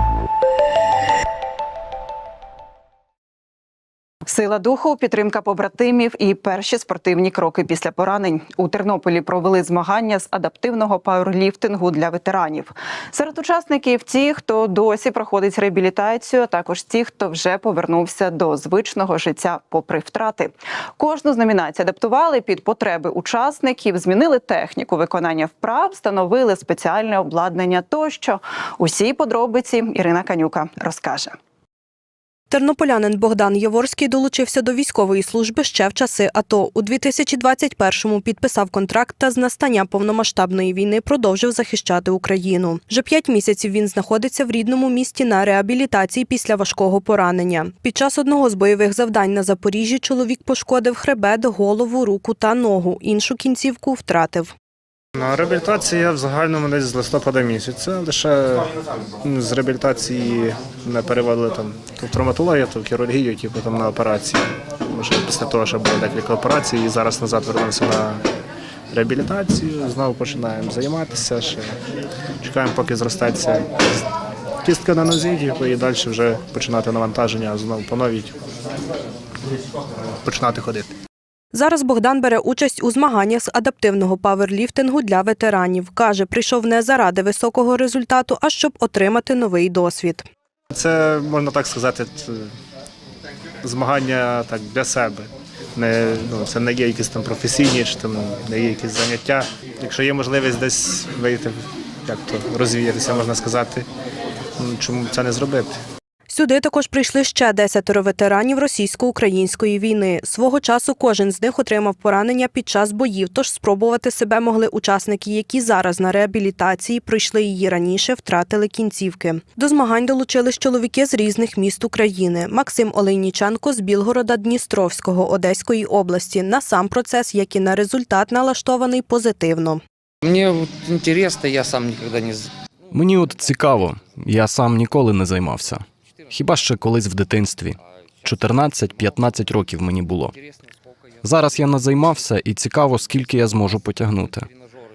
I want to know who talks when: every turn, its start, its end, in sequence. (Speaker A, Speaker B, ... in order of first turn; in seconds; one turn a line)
Speaker A: 4.2-31.4
Speaker B: 32.5-54.5
Speaker C: 55.1-68.2
Speaker C: 68.9-71.7
Speaker C: 72.4-74.0
Speaker C: 74.6-78.3
Speaker C: 80.2-80.9
Speaker B: 81.5-90.3
Speaker C: 90.7-92.5
Speaker C: 93.6-103.8
Speaker C: 104.6-105.8
Speaker B: 106.3-129.8
Speaker D: 130.2-132.5
Speaker E: 132.9-140.3
Speaker E: 141.2-144.5